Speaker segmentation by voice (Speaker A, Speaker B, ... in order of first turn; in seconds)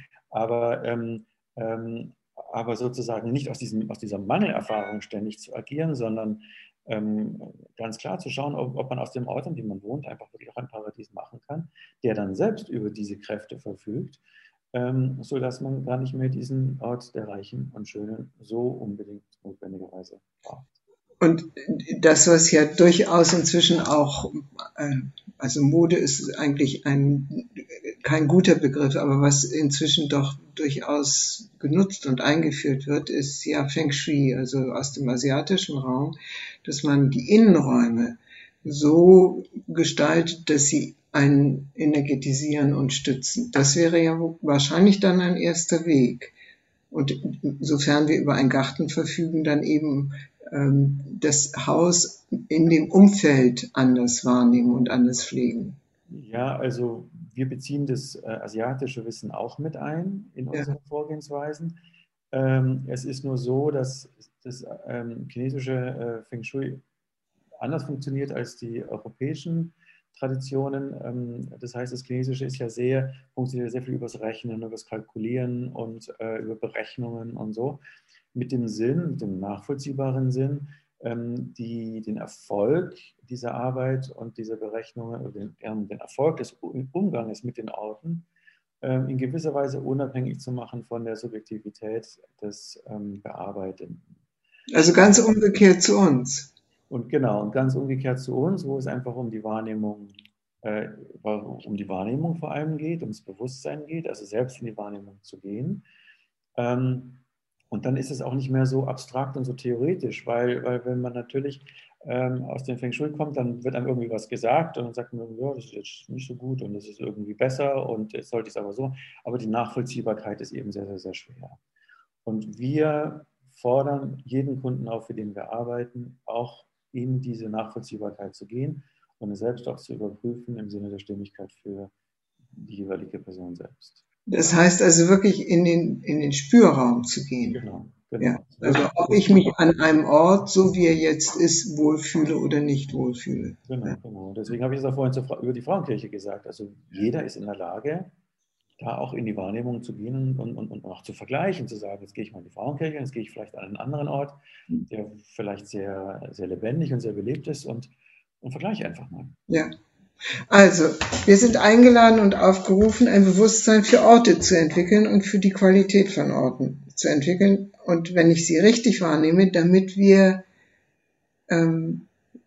Speaker A: 0.3-14.2, 14.7-20.7, 56.1-61.8, 62.3-66.8, 67.6-77.8, 78.3-88.3, 88.8-94.1, 96.9-105.8, 106.6-121.6, 122.2-131.9, 132.5-134.0, 137.6-139.5, 143.7-148.1, 148.8-159.4
Speaker B: 21.2-46.4, 46.9-55.8, 94.7-96.5, 134.3-137.6, 138.2-143.9, 159.5-159.7, 160.3-170.4, 171.5-172.1